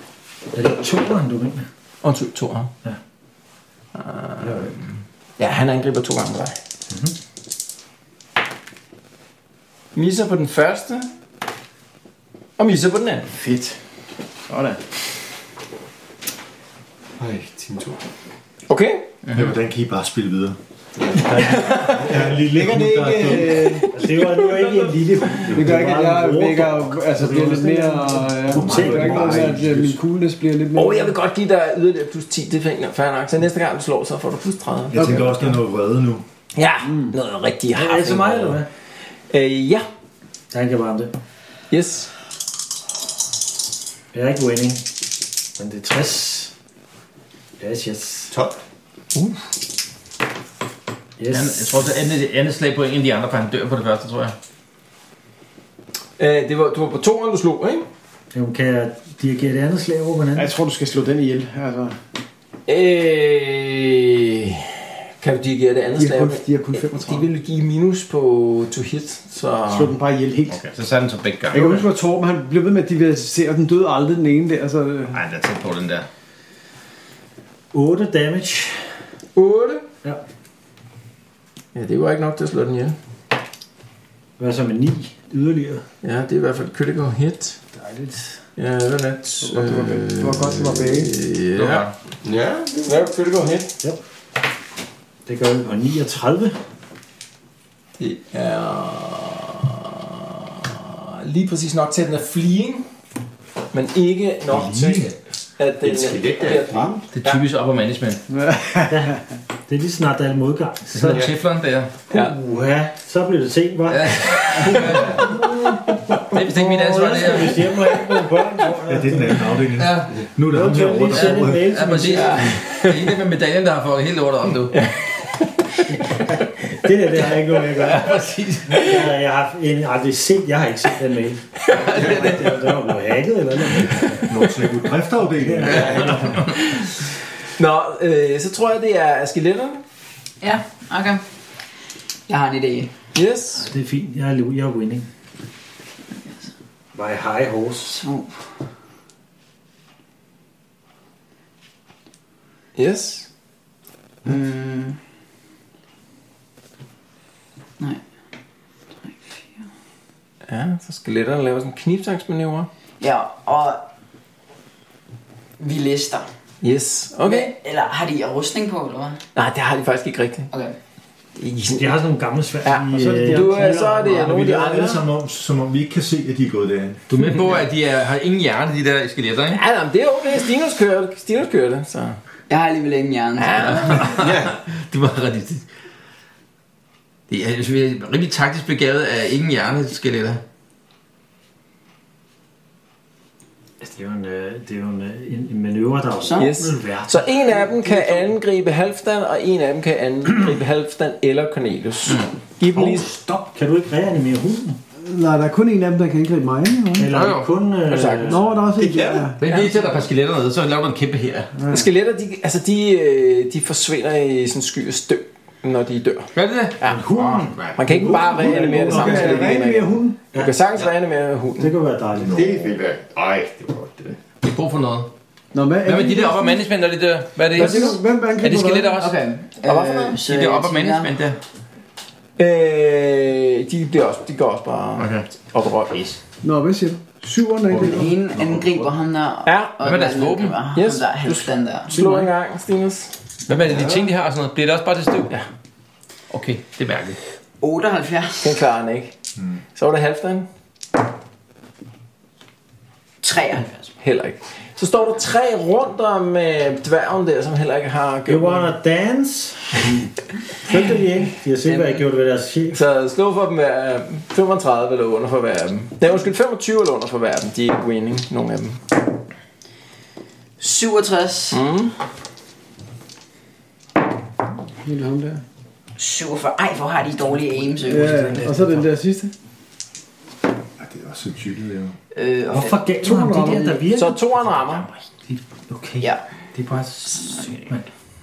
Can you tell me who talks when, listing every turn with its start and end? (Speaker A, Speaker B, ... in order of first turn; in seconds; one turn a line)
Speaker A: 0.5-1.7
Speaker B: 2.0-2.7
Speaker B: 3.9-4.8
Speaker B: 5.4-6.6
Speaker A: 6.9-7.1
Speaker B: 9.9-11.1
Speaker B: 12.6-13.3
Speaker C: 13.3-13.8
Speaker C: 14.5-14.8
Speaker D: 17.2-18.0
Speaker B: 18.7-19.1
Speaker E: 19.3-20.6
Speaker D: 20.9-21.4
Speaker A: 21.3-21.6
Speaker B: 21.3-22.2
Speaker E: 21.8-23.8
Speaker C: 22.2-23.9
Speaker A: 23.9-29.7
Speaker B: 24.2-24.7
Speaker C: 25.4-31.2
Speaker E: 28.5-30.0
Speaker B: 30.7-35.5
Speaker E: 34.9-36.2
Speaker C: 34.9-35.5
Speaker B: 36.5-38.6
Speaker C: 36.8-37.1
Speaker A: 37.7-38.7
Speaker B: 39.3-39.9
Speaker A: 40.5-41.1
Speaker B: 41.7-42.1
Speaker A: 44.1-44.9
Speaker A: 45.5-46.5
Speaker A: 47.6-48.3
Speaker D: 48.3-48.6
Speaker A: 51.2-51.9
Speaker F: 51.3-54.3
Speaker B: 56.2-57.9
Speaker A: 58.3-60.5
Speaker C: 60.4-62.0
Speaker B: 62.7-69.9
Speaker C: 66.0-67.3
Speaker C: 69.7-70.7
Speaker F: 70.5-71.9
Speaker C: 71.5-75.2
Speaker F: 75.1-76.1
Speaker A: 77.7-78.8
Speaker B: 79.3-79.8
Speaker B: 81.7-83.0
Speaker A: 84.4-85.8
Speaker B: 86.0-87.6
Speaker A: 87.7-88.4
Speaker B: 88.5-91.9
Speaker C: 89.4-91.1
Speaker F: 91.5-91.9
Speaker D: 92.2-93.1
Speaker B: 92.8-93.7
Speaker A: 95.2-96.5
Speaker B: 98.0-102.8
Speaker B: 103.7-107.4
Speaker E: 104.5-105.2
Speaker D: 105.8-107.0
Speaker F: 107.1-108.2
Speaker C: 108.3-109.2
Speaker A: 108.9-111.2
Speaker F: 110.9-111.9
Speaker D: 111.1-111.4
Speaker B: 112.1-112.3
Speaker A: 112.1-119.4
Speaker F: 113.9-115.3
Speaker F: 116.3-117.7
Speaker C: 117.5-118.4
Speaker E: 118.9-121.9
Speaker F: 119.8-120.1
Speaker A: 120.5-122.4
Speaker F: 121.1-124.9
Speaker B: 122.1-123.1
Speaker B: 124.7-125.8
Speaker A: 125.9-134.3
Speaker F: 127.8-128.8
Speaker B: 131.7-132.3
Speaker E: 134.3-136.2
Speaker A: 135.4-136.4
Speaker D: 135.9-136.2
Speaker B: 136.6-136.9
Speaker B: 137.6-139.8
Speaker G: 140.4-141.2
Speaker G: 142.3-142.9
Speaker B: 143.1-143.7
Speaker A: 143.5-145.1
Speaker A: 146.9-148.0
Speaker G: 147.8-148.4
Speaker B: 152.8-153.3
Speaker G: 154.2-155.0
Speaker G: 159.0-159.7
Speaker B: 160.5-162.7
Speaker G: 163.0-163.8
Speaker G: 165.6-166.3
Speaker B: 166.6-167.5
Speaker G: 167.2-169.2
Speaker B: 169.3-170.5
Speaker G: 170.5-170.8
Speaker B: 171.3-172.0
Speaker A: 171.7-174.3
Speaker B: 172.6-175.0
Speaker C: 172.9-175.0
Speaker E: 174.3-177.0
Speaker F: 177.1-179.6
Speaker B: 177.2-177.6
Speaker B: 179.5-182.2
Speaker G: 182.5-184.0
Speaker F: 183.4-185.6
Speaker B: 183.5-184.2
Speaker D: 184.1-184.6
Speaker F: 187.3-190.4
Speaker A: 193.8-198.1
Speaker G: 196.2-196.6
Speaker B: 196.4-203.1
Speaker A: 202.7-204.8
Speaker C: 205.0-207.1
Speaker A: 206.9-208.6
Speaker F: 207.1-207.5
Speaker B: 207.9-208.4
Speaker C: 208.2-209.4
Speaker D: 208.8-209.3
Speaker F: 209.4-211.5
Speaker B: 209.4-209.9
Speaker C: 211.5-211.9
Speaker B: 211.7-217.0
Speaker F: 216.3-218.1
Speaker A: 216.8-219.6
Speaker B: 217.8-221.7
Speaker C: 218.2-220.2
Speaker A: 221.6-222.6
Speaker D: 222.2-224.2
Speaker F: 224.4-225.1
Speaker C: 225.5-226.6
Speaker F: 225.8-229.2
Speaker C: 227.5-229.0
Speaker G: 229.0-231.2
Speaker B: 229.6-230.2
Speaker F: 230.2-231.4
Speaker B: 232.4-236.2
Speaker F: 235.0-235.3
Speaker C: 236.4-238.2
Speaker G: 237.7-242.2
Speaker E: 238.4-238.7
Speaker B: 239.4-239.8
Speaker F: 239.8-240.6
Speaker B: 240.7-243.1
Speaker F: 243.5-245.3
Speaker F: 246.3-247.2
Speaker G: 247.6-248.6
Speaker B: 248.4-249.1
Speaker B: 249.8-250.4
Speaker G: 253.2-253.8
Speaker B: 254.0-258.7
Speaker A: 258.3-259.9
Speaker A: 260.6-262.8
Speaker B: 261.6-262.0
Speaker B: 262.7-268.8
Speaker G: 270.6-271.6
Speaker B: 271.5-271.9
Speaker C: 274.8-275.4
Speaker G: 276.0-278.4
Speaker C: 277.9-279.3
Speaker A: 277.9-278.9
Speaker E: 280.8-281.9
Speaker G: 282.1-282.7
Speaker A: 282.5-284.2
Speaker C: 282.9-283.9
Speaker B: 283.9-284.9
Speaker A: 285.3-287.9
Speaker G: 287.1-287.8